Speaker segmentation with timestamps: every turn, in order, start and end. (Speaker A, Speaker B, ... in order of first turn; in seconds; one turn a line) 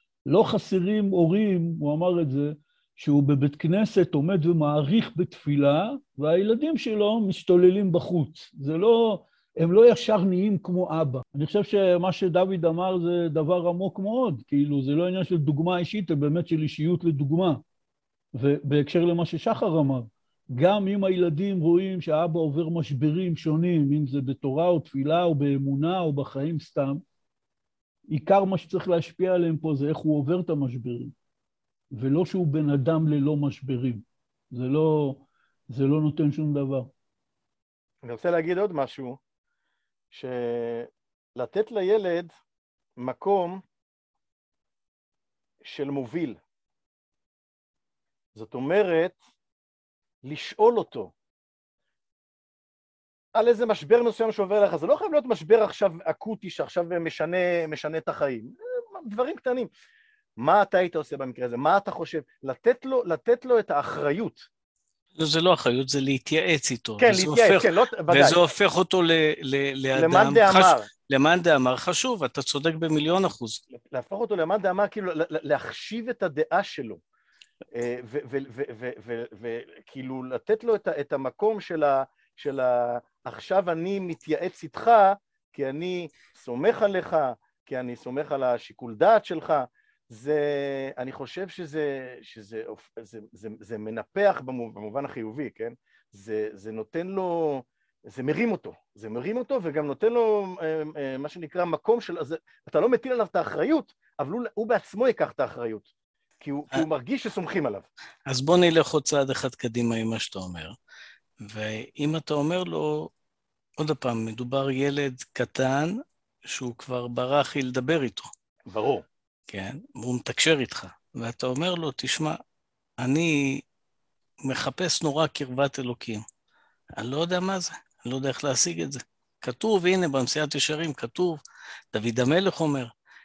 Speaker A: 0.2-17.6
Speaker A: 18.3-27.0
Speaker A: 28.1-31.1
Speaker A: 31.9-36.9
Speaker B: 38.0-39.2
Speaker B: 40.1-42.3
Speaker B: 43.0-43.6
Speaker B: 45.6-46.4
Speaker B: 48.3-49.2
Speaker B: 50.2-51.1
Speaker B: 53.3-59.7
Speaker B: 60.4-64.5
Speaker C: 65.2-73.6
Speaker B: 67.0-68.4
Speaker B: 69.9-70.9
Speaker B: 73.9-77.0
Speaker B: 77.7-105.9
Speaker B: 106.4-107.8
Speaker C: 108.3-110.7
Speaker C: 111.4-113.1
Speaker C: 113.8-115.9
Speaker C: 116.5-118.3
Speaker B: 118.7-119.0
Speaker C: 119.5-122.4
Speaker C: 123.0-123.6
Speaker C: 124.4-126.2
Speaker C: 127.0-131.4
Speaker C: 131.9-132.9